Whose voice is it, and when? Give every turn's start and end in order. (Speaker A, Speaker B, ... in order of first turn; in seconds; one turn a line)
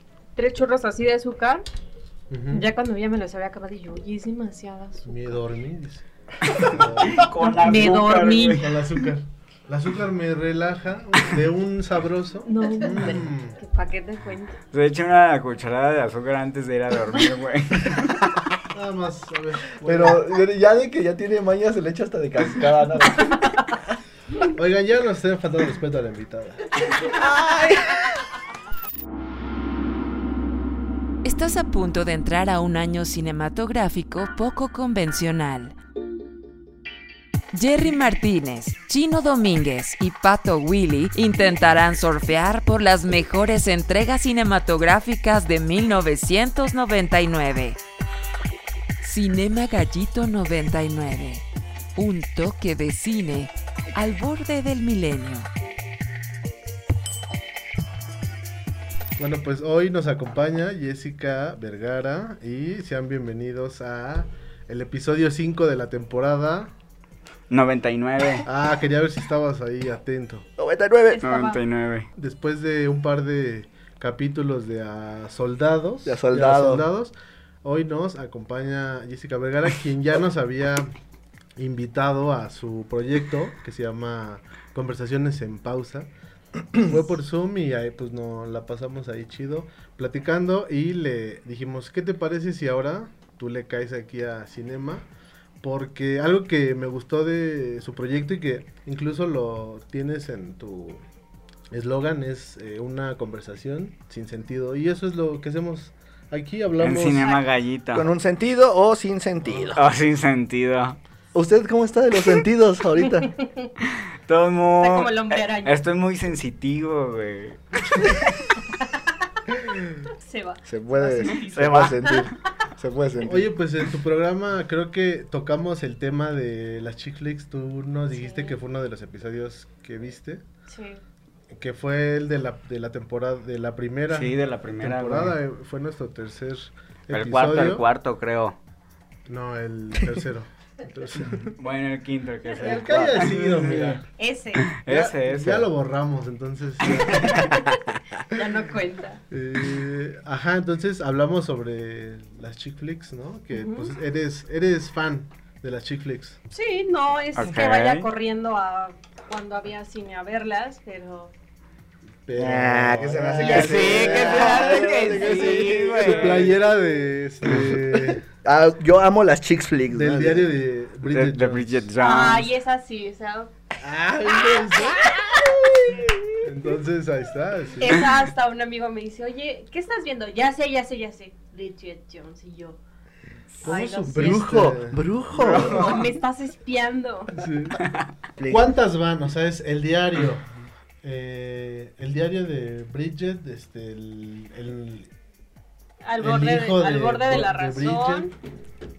Speaker A: 0.3-1.6
Speaker B: 2.3-2.6
Speaker A: 2.5-5.1
Speaker B: 5.0-13.6
Speaker C: 6.5-8.7
Speaker A: 7.4-8.6
Speaker A: 12.4-14.6
Speaker C: 14.7-18.2
Speaker B: 18.7-20.3
Speaker D: 19.8-23.5
Speaker B: 24.5-26.9
Speaker D: 27.1-28.2
Speaker E: 31.2-35.7
Speaker E: 37.5-47.8
Speaker E: 49.0-51.4
Speaker E: 52.0-55.5
Speaker B: 59.2-66.7
Speaker C: 67.5-68.5
Speaker B: 68.4-70.5
Speaker D: 70.6-71.2
Speaker A: 71.1-71.6
Speaker C: 71.2-72.1
Speaker B: 72.2-80.9
Speaker D: 76.0-76.9
Speaker B: 81.6-86.1
Speaker B: 86.7-95.1
Speaker B: 95.6-101.0
Speaker B: 101.7-107.3
Speaker C: 106.8-108.1
Speaker A: 107.2-107.4
Speaker D: 107.9-109.8
Speaker C: 109.7-111.0
Speaker D: 111.3-113.3
Speaker A: 113.2-113.7
Speaker C: 114.2-118.2
Speaker A: 114.8-115.7
Speaker A: 120.2-122.3
Speaker D: 120.7-123.5
Speaker C: 121.4-122.2
Speaker B: 123.2-130.4
Speaker A: 128.1-128.6
Speaker A: 130.7-131.0
Speaker B: 131.5-137.8
Speaker C: 134.1-135.4
Speaker C: 137.1-138.6
Speaker B: 139.3-141.5
Speaker C: 141.6-144.0
Speaker B: 142.6-144.0
Speaker D: 142.6-143.3
Speaker A: 144.2-144.7
Speaker C: 144.6-145.7
Speaker B: 144.9-147.7
Speaker A: 147.1-147.8
Speaker A: 148.3-149.2
Speaker B: 149.3-156.4
Speaker A: 153.5-153.9
Speaker A: 156.5-161.3
Speaker C: 157.3-158.1
Speaker B: 162.2-168.2
Speaker D: 162.3-166.6
Speaker C: 163.4-166.5
Speaker A: 163.4-165.8
Speaker D: 167.4-170.5
Speaker B: 169.9-171.9
Speaker C: 171.0-172.5
Speaker A: 172.0-173.5
Speaker B: 173.8-175.1
Speaker D: 174.3-174.9
Speaker B: 176.4-178.2
Speaker A: 177.8-182.8
Speaker B: 183.6-185.1
Speaker A: 183.6-184.5
Speaker D: 184.1-186.1
Speaker C: 185.3-186.0
Speaker A: 185.6-187.3
Speaker B: 187.3-187.8
Speaker D: 188.4-188.7
Speaker B: 188.5-190.4
Speaker B: 191.0-195.1
Speaker A: 196.0-198.3
Speaker B: 196.2-198.3